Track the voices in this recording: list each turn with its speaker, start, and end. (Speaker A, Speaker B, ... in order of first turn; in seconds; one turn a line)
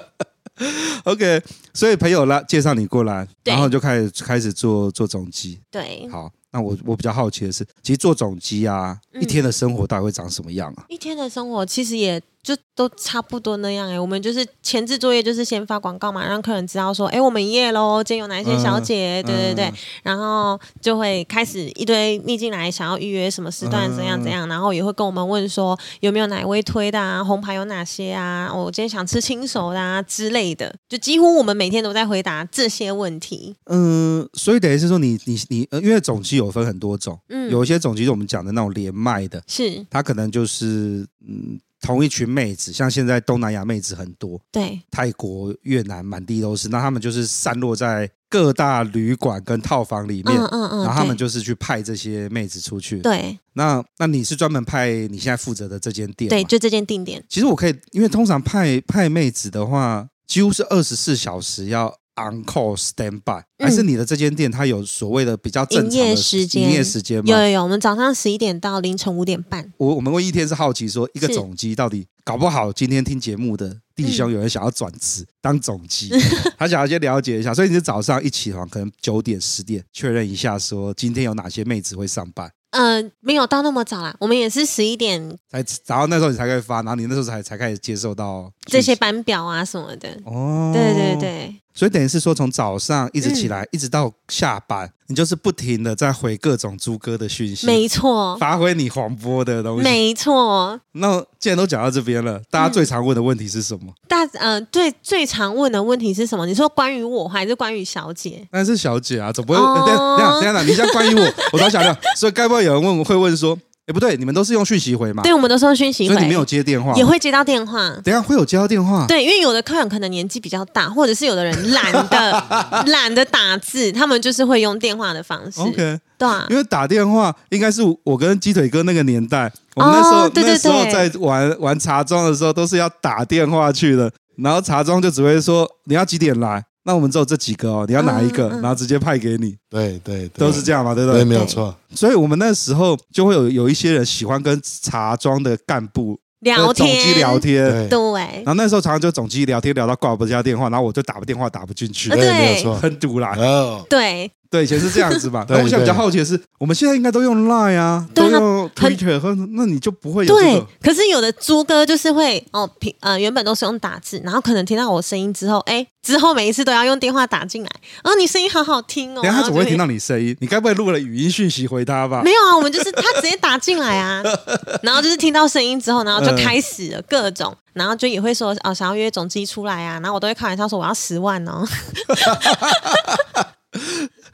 Speaker A: 0.6-10.8
Speaker B: 3.4-3.7
Speaker B: 5.7-6.2
Speaker B: 9.1-9.4
Speaker B: 10.9-33.6
Speaker A: 18.4-19.8
Speaker A: 23.6-24.4
Speaker A: 33.7-56.5
Speaker B: 37.3-37.6
Speaker B: 39.5-39.9
Speaker B: 44.5-44.8
Speaker B: 50.2-51.2
Speaker B: 53.0-53.4
Speaker B: 56.3-57.2
Speaker A: 57.3-67.5
Speaker B: 63.6-63.9
Speaker B: 65.7-69.7
Speaker A: 69.8-82.5
Speaker B: 74.0-74.3
Speaker B: 76.1-76.5
Speaker B: 82.7-85.4
Speaker A: 85.5-89.0
Speaker B: 88.7-91.6
Speaker A: 90.2-97.8
Speaker B: 93.2-93.5
Speaker B: 97.6-98.4
Speaker A: 98.4-100.0
Speaker B: 99.8-100.8
Speaker A: 100.9-104.0
Speaker B: 102.6-102.9
Speaker B: 104.1-108.5
Speaker A: 108.5-115.3
Speaker B: 109.5-112.0
Speaker B: 115.2-118.1
Speaker A: 116.1-117.1
Speaker A: 118.0-119.1
Speaker B: 119.1-126.5
Speaker A: 121.7-122.8
Speaker A: 125.6-139.6
Speaker B: 129.8-131.1
Speaker B: 138.0-138.8
Speaker C: 139.7-141.8
Speaker A: 140.4-141.3
Speaker B: 141.3-141.6
Speaker A: 141.9-147.8
Speaker B: 146.4-148.5
Speaker C: 147.6-148.0
Speaker A: 148.5-153.4
Speaker B: 152.1-152.7
Speaker C: 152.1-153.9
Speaker B: 153.9-155.2
Speaker A: 154.5-160.7
Speaker C: 155.5-156.0
Speaker B: 158.1-159.0
Speaker B: 160.3-169.8
Speaker A: 169.2-172.3
Speaker B: 172.2-183.0
Speaker A: 174.3-174.8
Speaker A: 176.2-176.6
Speaker A: 182.1-184.1